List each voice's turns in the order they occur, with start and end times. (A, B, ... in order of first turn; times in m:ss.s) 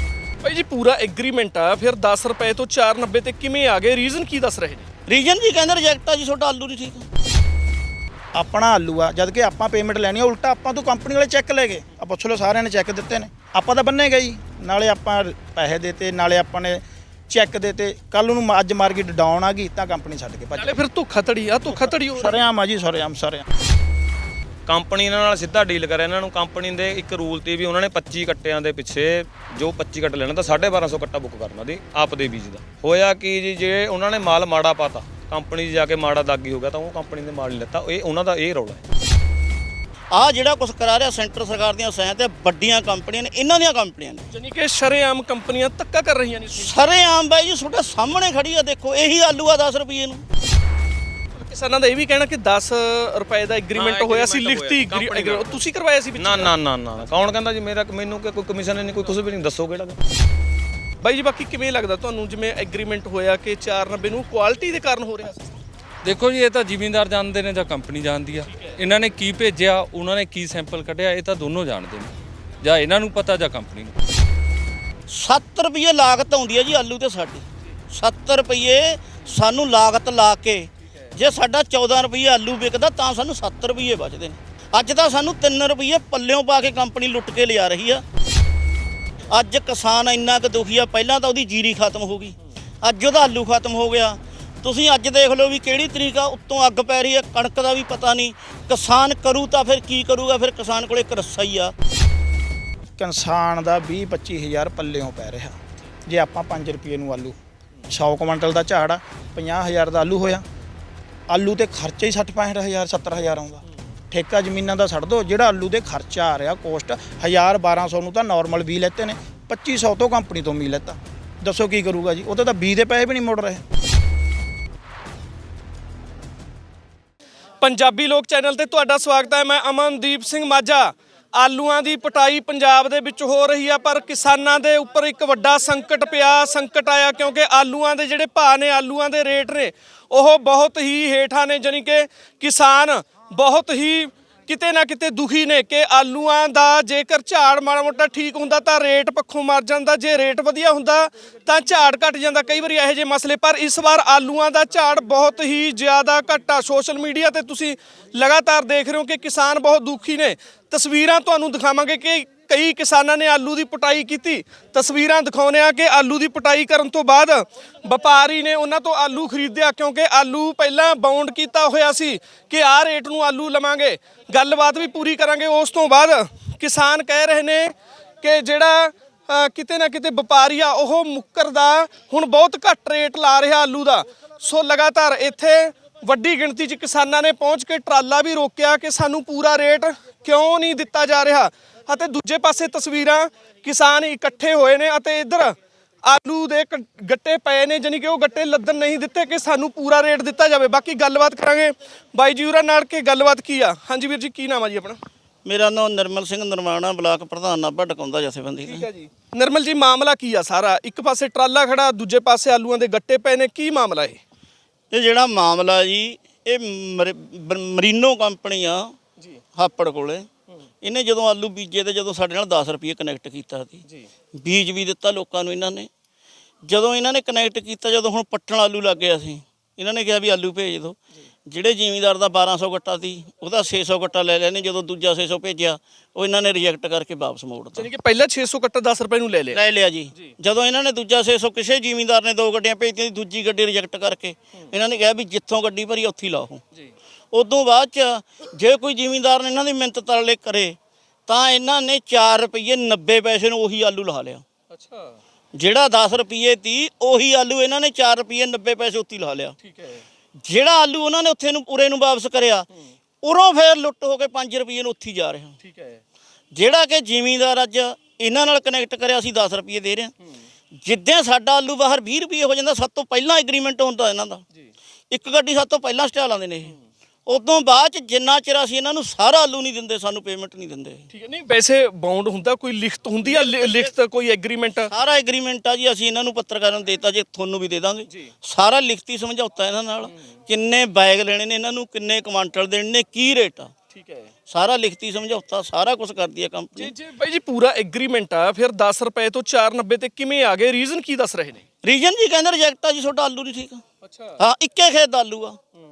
0:00.4-0:04.9 A
0:05.1-0:07.0 B
0:08.4-0:20.8 C
0:20.6-0:22.4 A
0:21.8-0:23.4 C
0:24.6-0:38.8 D
0:40.1-0:44.2 B
0:44.3-0:46.8 A
0:46.5-0:50.2 B
0:51.4-0:56.5 A
0:53.7-0:55.6 D
0:56.2-1:00.0 D
1:01.0-1:05.5 A
1:06.0-1:12.1 E
1:12.6-1:13.9 E
1:15.1-1:28.0 B
1:29.3-1:41.7 B
1:43.0-1:47.4 C
1:47.9-1:50.4 C
1:51.3-2:03.6 C
2:07.6-3:25.0 A
3:25.4-3:28.9 B
3:28.6-3:34.2 A
3:34.9-3:39.0 B
3:39.5-3:40.3 B
3:40.8-3:45.9 B
3:46.6-3:57.9 B
3:57.8-3:59.6 A
3:59.5-4:06.6 B
4:07.3-4:14.4 B
4:14.7-4:15.2 A
4:15.5-4:19.6 B
4:19.6-4:20.0 A
4:20.4-4:22.7 B
4:23.2-4:25.6 B
4:25.6-4:26.0 A
4:26.5-4:30.1 B
4:30.7-4:34.4 B
4:35.1-4:36.7 B
4:37.2-4:41.1 B
4:41.1-4:44.9 A
4:43.2-4:43.9 B
4:44.9-4:53.7 B
4:53.9-4:54.3 A
4:54.5-4:56.9 B
4:56.8-5:01.6 A
5:01.8-5:03.8 B
5:04.0-5:04.4 A
5:04.4-5:05.6 B